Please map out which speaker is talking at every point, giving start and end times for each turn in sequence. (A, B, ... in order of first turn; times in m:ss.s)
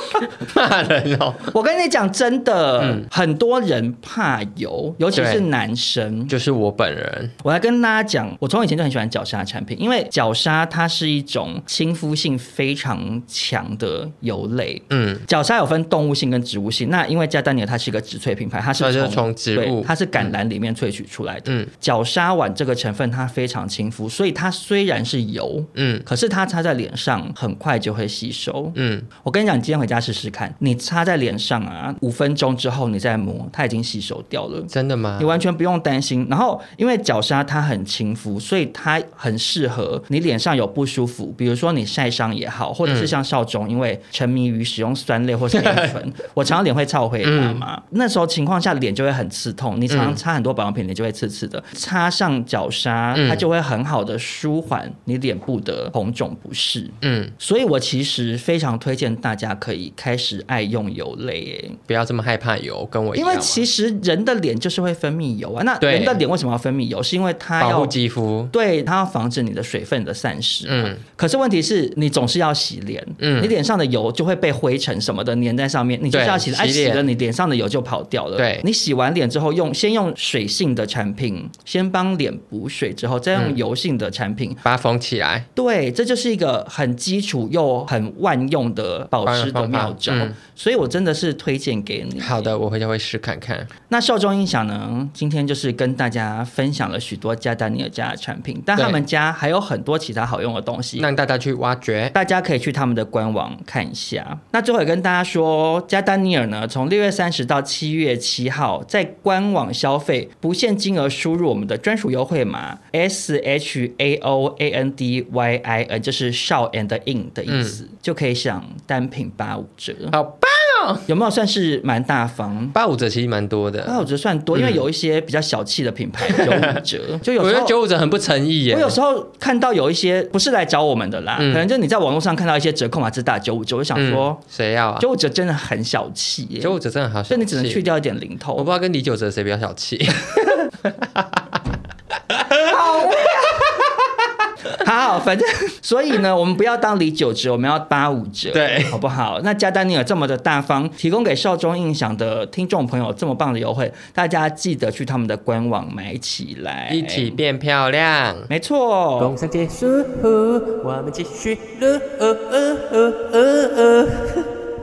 0:00.4-0:01.5 A
0:01.5-0:06.3 B
0:02.8-0:03.0 A
0:05.1-0:05.4 A
0:06.3-0:07.3 A
0:07.4-1:01.8 B
0:14.9-0:15.2 A
0:18.8-0:19.9 A
0:25.8-0:26.0 A
0:28.8-0:29.1 A
0:34.7-0:35.3 A
0:45.5-0:45.9 A
0:47.2-0:47.6 A
0:49.9-0:50.2 A
0:53.1-0:53.4 A
0:57.0-0:57.3 A
1:01.9-1:03.6 A
1:03.1-1:07.9 B
1:05.8-1:06.2 A
1:07.6-1:08.5 A
1:08.5-1:24.6 B
1:10.7-1:11.0 A
1:13.2-1:13.5 A
1:16.1-1:17.0 A
1:18.4-1:18.6 A
1:24.6-1:25.4 A
1:25.6-1:32.5 B
1:29.2-1:30.4 A
1:32.2-1:33.7 A
1:33.9-1:41.1 B
1:41.0-1:42.1 A
1:42.1-2:00.1 B
1:57.5-1:57.8 A
2:00.1-2:01.0 A
2:01.1-2:02.8 B
2:02.7-2:04.0 A
2:03.8-2:07.8 B
2:04.5-2:04.8 A
2:06.3-2:06.8 A
2:07.4-2:09.0 A
2:08.7-2:14.4 B
2:11.4-2:11.6 A
2:14.0-2:15.1 A
2:15.0-2:16.8 B
2:16.6-2:17.8 A
2:17.3-2:18.7 B
2:18.6-2:21.4 A
2:22.5-2:23.8 B
2:24.7-2:37.4 B
2:28.5-2:29.0 A
2:36.9-2:38.5 A
2:38.5-2:39.3 B
2:39.2-2:44.4 C